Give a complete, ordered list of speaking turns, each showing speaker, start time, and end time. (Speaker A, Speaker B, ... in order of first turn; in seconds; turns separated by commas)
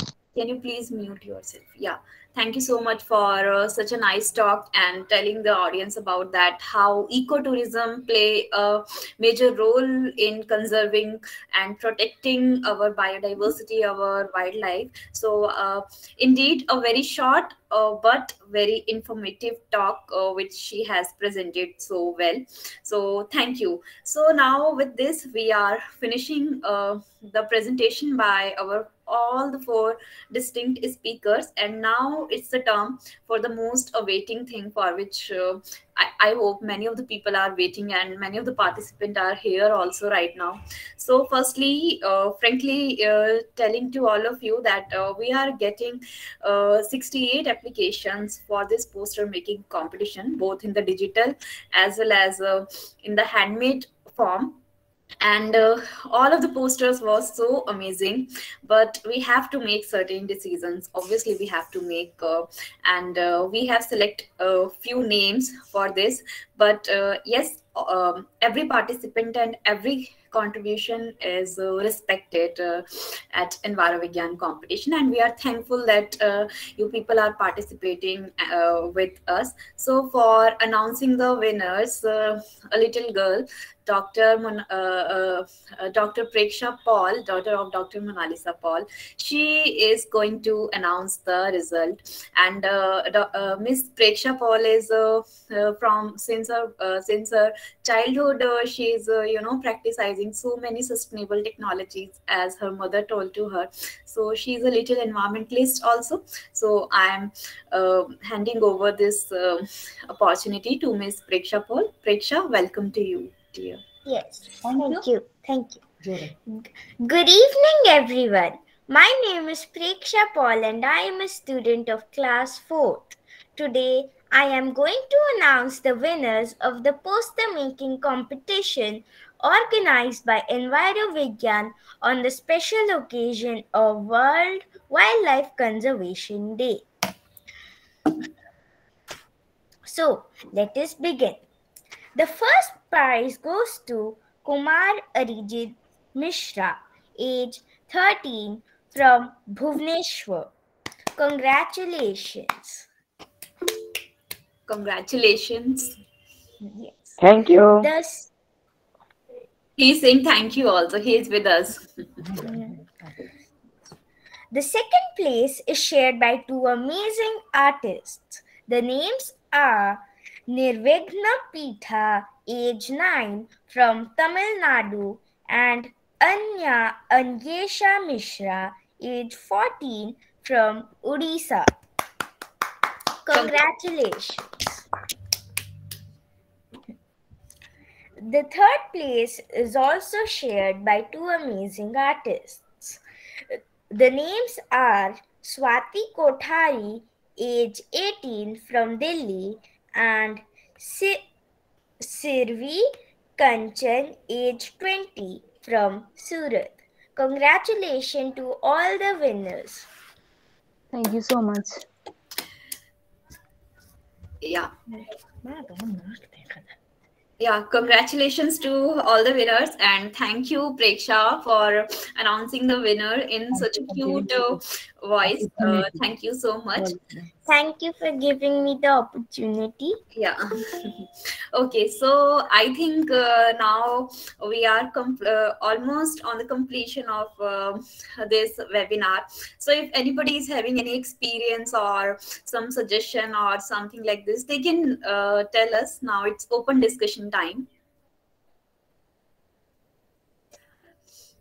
Speaker A: 0.3-54.6, Speaker A: 55.2-113.8, Speaker B: 114.0-115.8, Speaker B: 116.5-136.9, Speaker B: 139.8-141.4, Speaker B: 142.1-150.5, Speaker B: 151.2-152.8, Speaker A: 154.7-155.9, Speaker B: 156.6-158.3, Speaker A: 159.8-161.8, Speaker B: 162.4-162.8, Speaker B: 164.5-181.7, Speaker B: 183.2-184.4, Speaker B: 188.2-193.0, Speaker B: 193.5-201.2, Speaker B: 202.0-209.9, Speaker C: 210.9-211.8, Speaker A: 214.4-214.7, Speaker C: 215.4-216.7, Speaker A: 217.4-226.9, Speaker B: 227.4-230.0, Speaker A: 230.2-247.7